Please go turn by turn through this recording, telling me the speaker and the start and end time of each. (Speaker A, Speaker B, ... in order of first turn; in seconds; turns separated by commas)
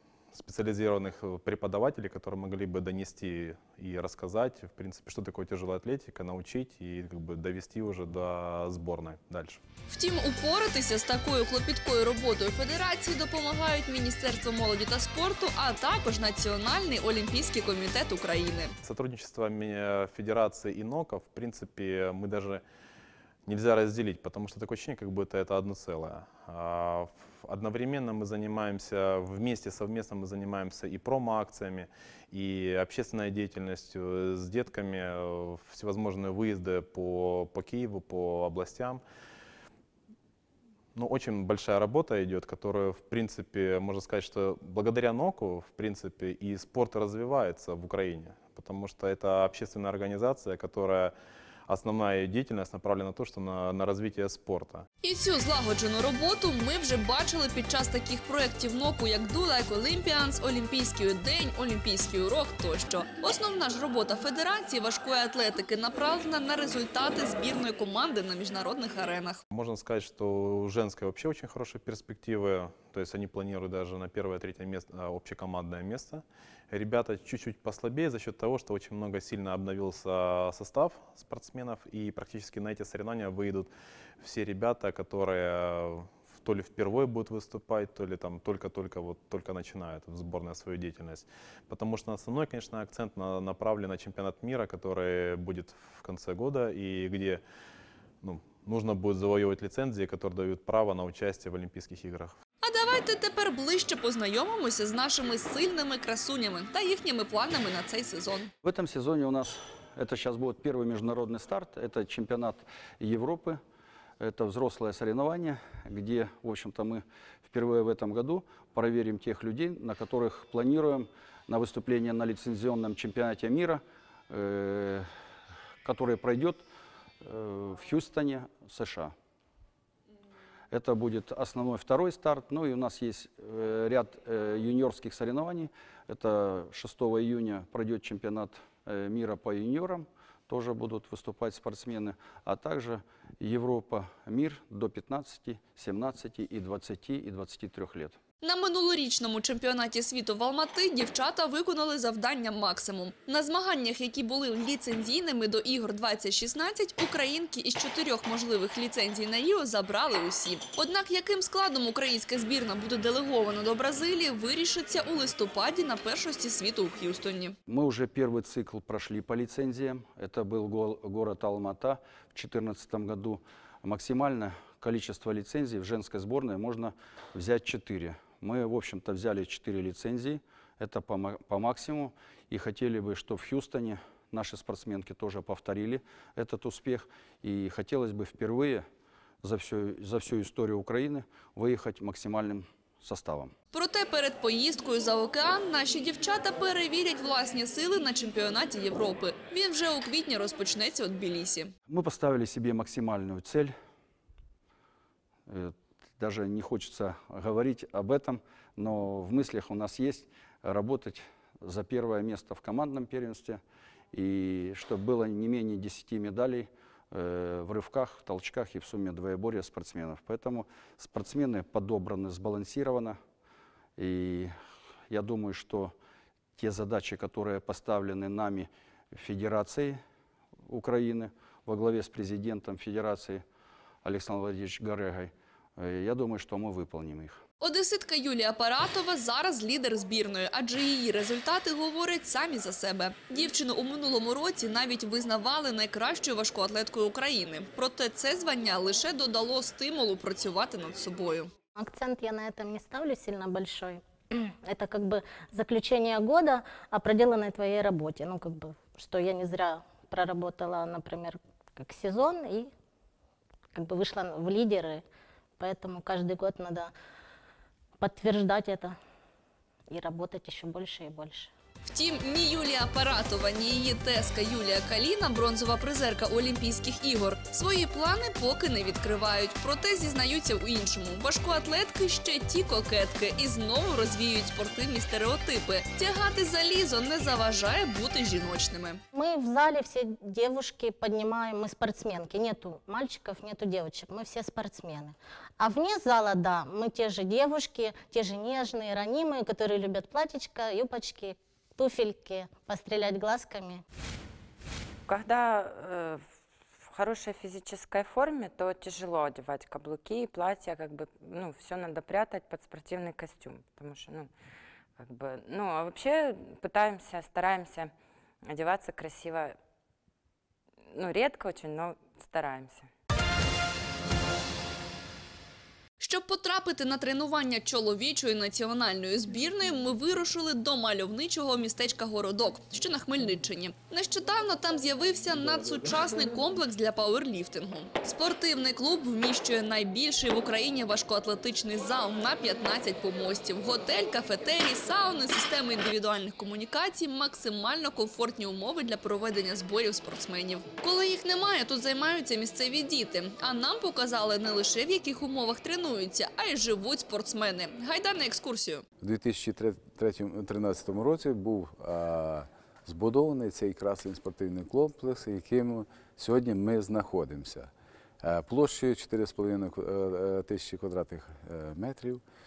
Speaker A: 0.3-9.6, Speaker B: 9.9-18.7, Speaker A: 18.8-22.6, Speaker A: 23.4-39.0, Speaker A: 40.9-51.1, Speaker A: 51.7-54.9, Speaker B: 55.0-69.4, Speaker A: 69.5-97.4, Speaker A: 98.2-102.4, Speaker B: 102.6-108.5, Speaker C: 108.6-113.6, Speaker C: 114.2-125.1, Speaker C: 125.8-126.6, Speaker C: 127.2-129.1, Speaker C: 130.7-148.2, Speaker B: 148.4-167.6, Speaker C: 167.7-188.8, Speaker C: 189.4-193.5, Speaker B: 193.7-201.7, Speaker C: 201.9-203.7, Speaker C: 205.5-213.6, Speaker C: 214.1-223.2, Speaker C: 224.0-224.5, Speaker C: 225.1-225.9, Speaker C: 226.6-230.0, Speaker C: 230.6-233.4, Speaker C: 234.0-237.4, Speaker B: 237.6-251.5, Speaker D: 251.8-262.7, Speaker D: 263.7-265.0, Speaker D: 265.6-266.9, Speaker D: 268.0-268.9, Speaker D: 269.9-271.5, Speaker B: 271.8-289.0, Speaker D: 289.1-303.8, Speaker E: 305.1-306.2, Speaker E: 306.8-314.3, Speaker E: 315.0-317.9, Speaker E: 318.4-319.6, Speaker E: 320.9-322.9, Speaker B: 326.0-358.8, Speaker F: 359.0-367.7, Speaker F: 368.2-372.2